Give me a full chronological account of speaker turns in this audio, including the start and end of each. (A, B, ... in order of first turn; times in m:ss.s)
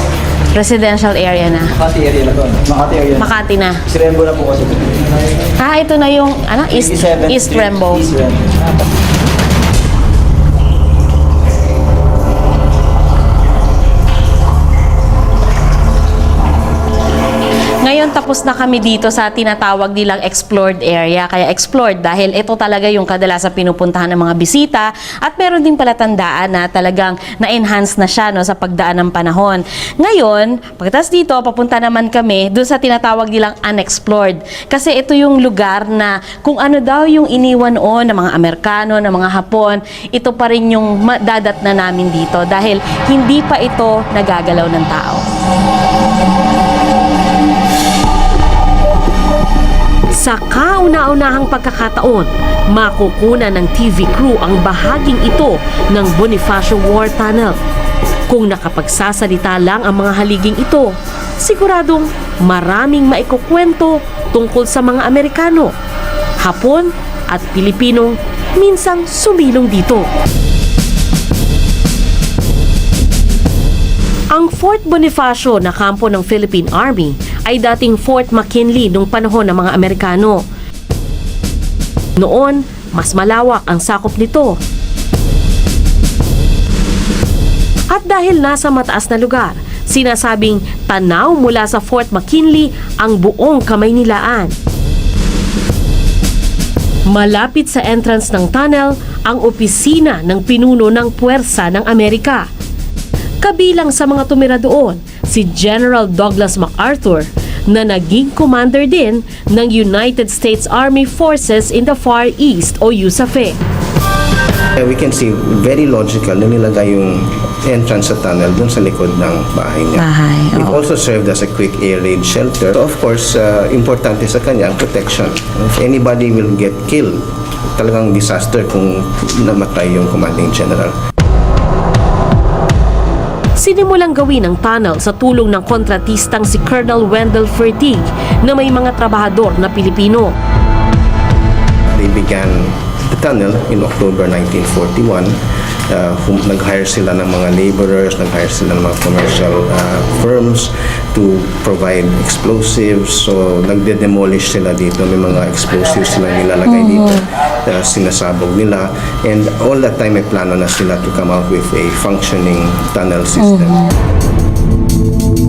0:00.5-0:01.7 A
0:01.8-0:03.3 B
0:03.2-0:03.8 A
0:03.9-0:05.1 B
0:05.6-0:08.0 A
0:06.7-0:08.4 B
0:17.8-0:45.2 A
0:50.1-0:57.6 C
0:58.3-1:05.7 C
1:06.4-1:10.1 C
1:14.3-1:20.4 C
1:22.2-1:24.6 C
1:27.9-1:34.5 C
1:37.1-1:42.5 C
1:43.4-1:53.6 C
1:54.8-2:07.2 D
2:00.0-2:00.8 A
2:07.7-2:11.0 D
2:13.6-2:20.3 C
2:21.9-2:25.4 D
2:25.9-2:43.8 D
2:36.6-2:37.2 A
2:43.4-2:43.8 A